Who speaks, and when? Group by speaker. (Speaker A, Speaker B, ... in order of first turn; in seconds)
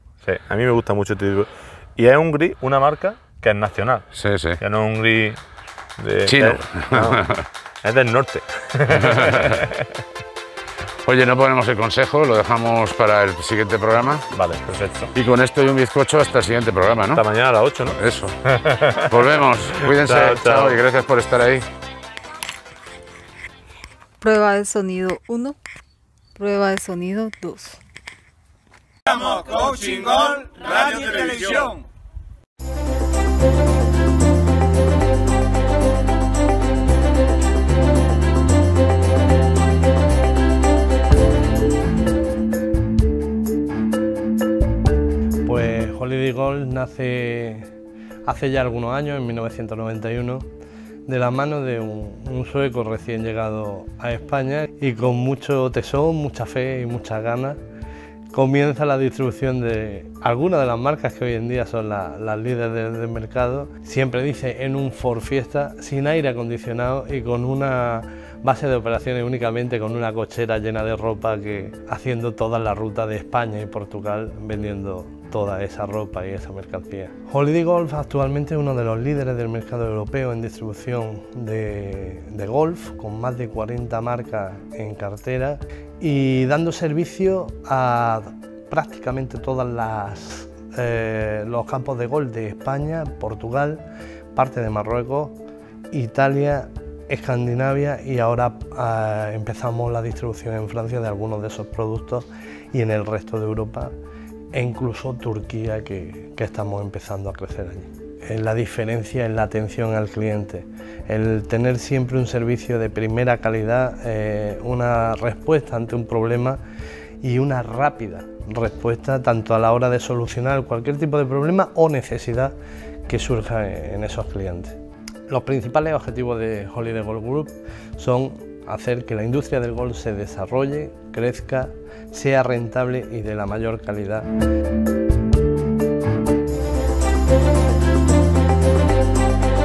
Speaker A: 0.2-4.1, 4.6-5.4, 6.0-7.2, 7.8-9.7, 14.3-15.1, 17.1-18.0, 18.5-19.1, 19.8-20.8
Speaker B: 4.1-4.6, 6.3-7.5, 8.9-9.7, 11.1-14.3, 15.2-17.2, 17.9-18.4, 19.0-21.7
Speaker C: 24.2-25.6, 26.4-27.8
Speaker D: 29.1-31.8
Speaker E: 45.5-47.7, 48.3-50.5, 51.1-57.6, 58.3-93.8, 94.3-95.4, 95.9-103.9, 104.5-116.6, 117.2-122.5, 123.1-124.8, 125.3-134.3